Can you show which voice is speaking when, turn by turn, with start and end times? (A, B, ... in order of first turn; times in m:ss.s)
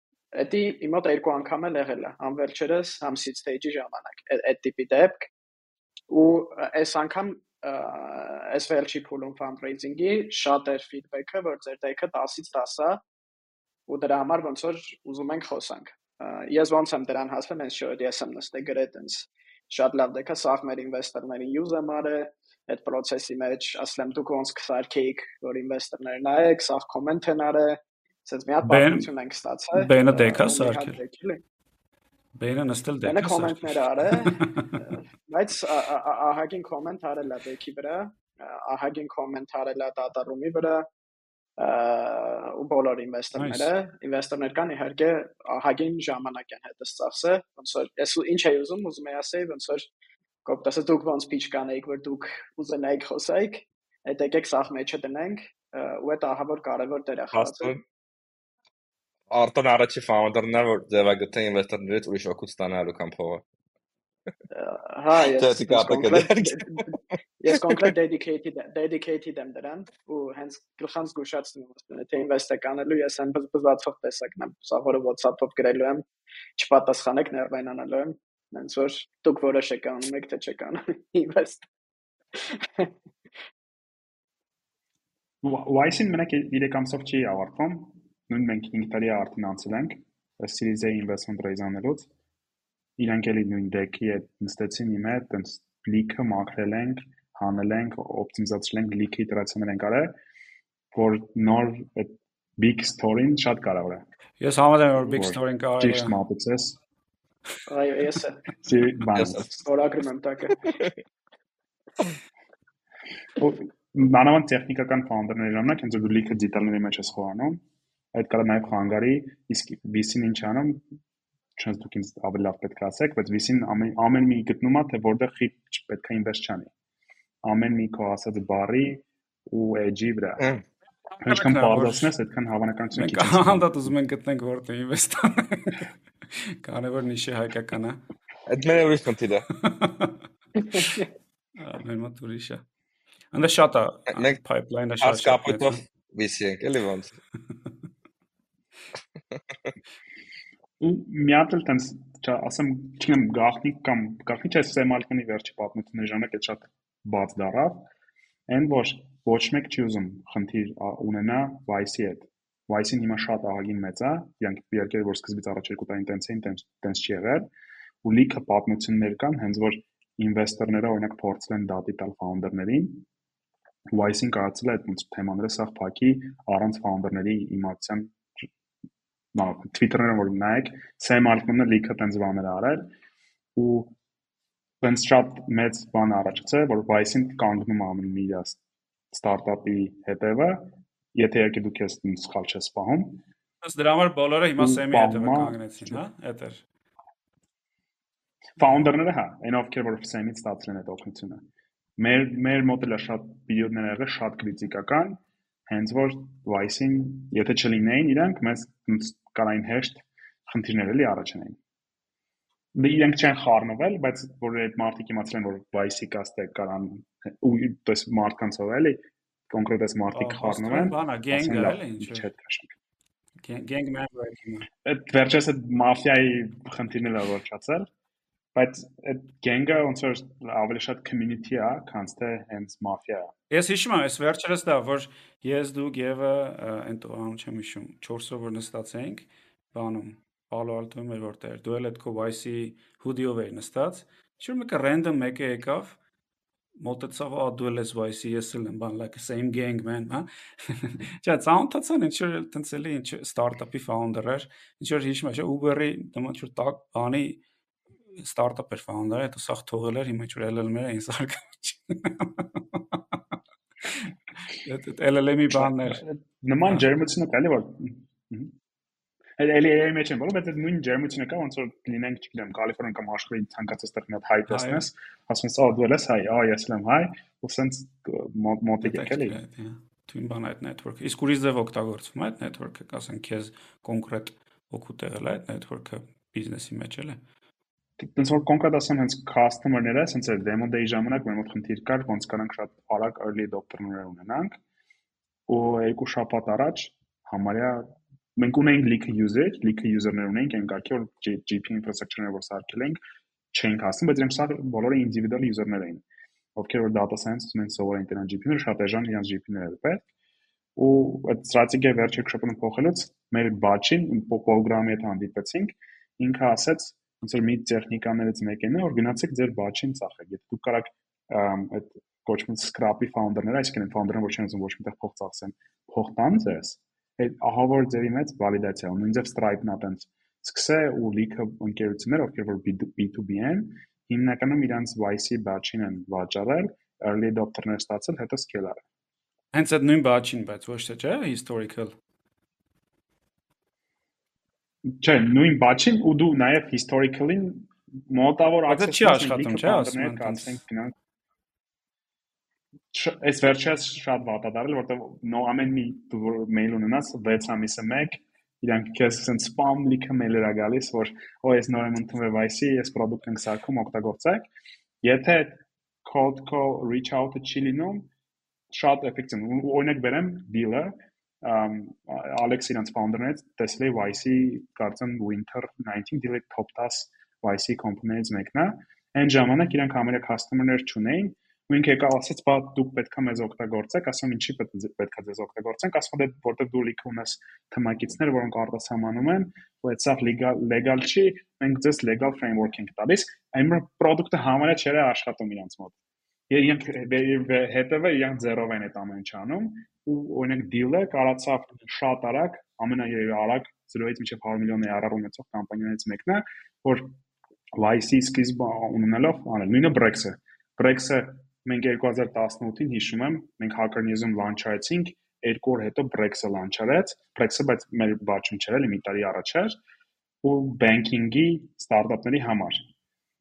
0:00.3-0:05.3 A
0:06.1-0:13.0 A
0:13.9-0:31.4 A
0:28.6-0:29.1 B
0:29.7-0:31.0 B
0:32.3-0:34.8 B
0:33.0-0:40.9 A
0:41.6-0:49.9 A
0:43.3-0:43.7 B
0:50.4-0:57.7 A
0:57.3-0:57.8 C
0:59.3-1:03.4 C
1:04.5-1:16.0 A
1:05.2-1:06.9 C
1:07.5-1:07.9 C
1:16.6-1:21.6 A
1:22.3-1:22.9 A
1:25.4-1:32.1 D
1:33.0-1:40.2 D
1:40.9-1:44.0 D
1:44.4-1:46.2 B
1:45.0-1:46.8 D
1:47.7-1:48.5 A
1:48.6-1:49.5 D
1:49.1-1:49.5 C
1:49.4-1:50.8 A
1:53.4-1:57.6 D
1:58.1-2:00.8 D
2:01.6-2:06.7 D
2:07.4-2:10.5 D
2:11.2-2:12.1 B
2:11.2-2:13.9 D
2:12.9-2:18.0 B
2:18.4-2:19.4 C
2:19.5-2:20.2 B
2:20.7-2:21.0 B
2:20.7-2:21.0 A
2:21.6-2:22.6 B
2:23.3-2:25.8 B
2:24.1-2:24.4 C
2:25.0-2:27.1 C
2:30.8-2:37.9 D
2:38.5-2:47.5 D
2:48.0-2:53.0 D
2:53.9-2:58.4 D
2:59.3-3:02.9 D
3:03.5-3:04.0 D
3:04.8-3:08.6 D
3:09.1-3:13.2 D
3:13.6-3:16.6 B
3:14.6-3:16.0 D
3:18.6-3:21.4 D
3:22.0-3:31.6 D
3:32.7-3:42.7 D
3:40.1-3:42.3 B
3:43.4-3:44.7 B
3:44.8-3:47.9 D
3:48.5-3:53.3 D
3:53.5-4:06.0 B
4:06.8-4:17.4 B
4:18.2-4:23.2 B
4:23.8-4:26.0 B
4:25.5-4:28.5 D
4:29.4-4:39.4 D
4:34.5-4:34.9 B
4:38.8-4:47.2 B
4:48.0-4:54.6 D
4:55.5-5:03.0 D
5:03.5-5:06.0 D
5:06.5-5:10.0 D
5:10.8-5:38.8 D
5:39.5-5:41.9 B
5:45.0-5:50.9 D
5:48.7-5:50.6 B
5:52.9-6:04.5 D
6:05.0-6:08.1 D
6:08.7-6:35.9 D
6:36.5-6:47.1 D
6:47.7-6:59.8 D
7:00.4-7:02.8 D